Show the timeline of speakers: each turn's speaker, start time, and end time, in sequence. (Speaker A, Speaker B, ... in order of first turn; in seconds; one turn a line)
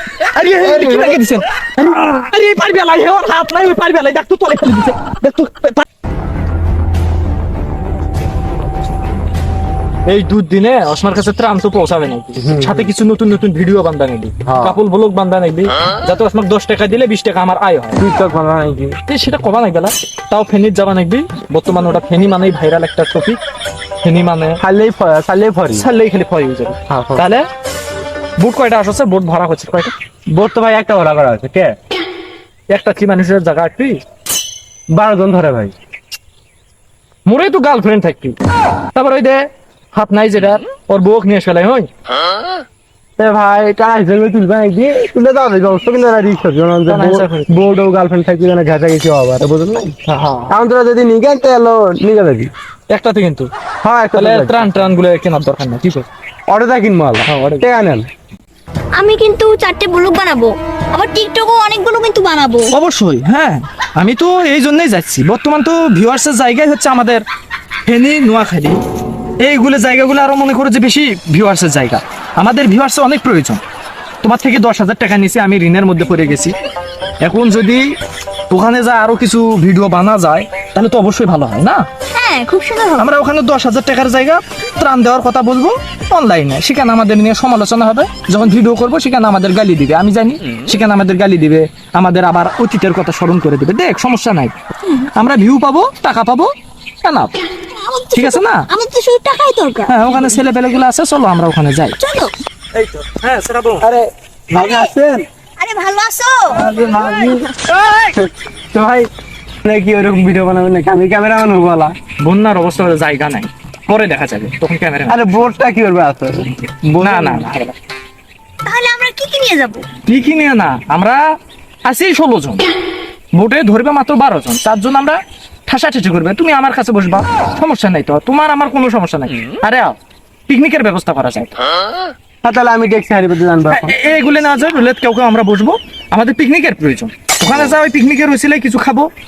Speaker A: 0.2-5.8
Speaker B: 0.7-1.2
Speaker A: 10.1-18.0
Speaker B: 12.4-12.9
Speaker B: 14.4-14.8
Speaker B: 18.0-19.0
Speaker A: 19.1-23.4
Speaker A: 24.0-24.6
Speaker B: 24.6-25.8
Speaker A: 25.7-27.4
Speaker B: 26.9-27.2
Speaker A: 28.4-29.9
Speaker B: 30.3-31.8
Speaker A: 32.7-34.0
Speaker B: 34.9-35.7
Speaker A: 37.3-38.4
Speaker A: 38.9-41.9
Speaker B: 43.2-52.5
Speaker A: 46.9-47.6
Speaker A: 50.1-50.5
Speaker A: 52.9-53.5
Speaker B: 53.8-54.8
Speaker A: 54.1-56.1
Speaker B: 56.5-58.1
Speaker A: 57.3-57.7
Speaker C: 59.0-62.7
Speaker A: 62.7-67.2
Speaker A: 67.9-68.8
Speaker A: 69.4-73.6
Speaker A: 74.2-76.5
Speaker A: 77.2-77.9
Speaker A: 78.5-81.8
Speaker C: 82.2-83.1
Speaker A: 83.0-94.5
Speaker A: 95.1-97.3
Speaker C: 97.7-100.2
Speaker A: 98.2-98.7
Speaker A: 99.9-102.0
Speaker C: 102.0-102.3
Speaker A: 102.7-103.9
Speaker B: 103.8-105.3
Speaker C: 105.6-106.6
Speaker B: 106.6-107.5
Speaker B: 108.0-109.1
Speaker B: 109.6-111.9
Speaker A: 112.2-115.2
Speaker B: 115.1-117.5
Speaker A: 117.0-117.8
Speaker C: 118.7-119.9
Speaker A: 120.1-121.2
Speaker A: 121.8-122.7
Speaker A: 123.3-130.0
Speaker A: 130.5-131.6
Speaker B: 132.4-134.0
Speaker A: 133.7-139.1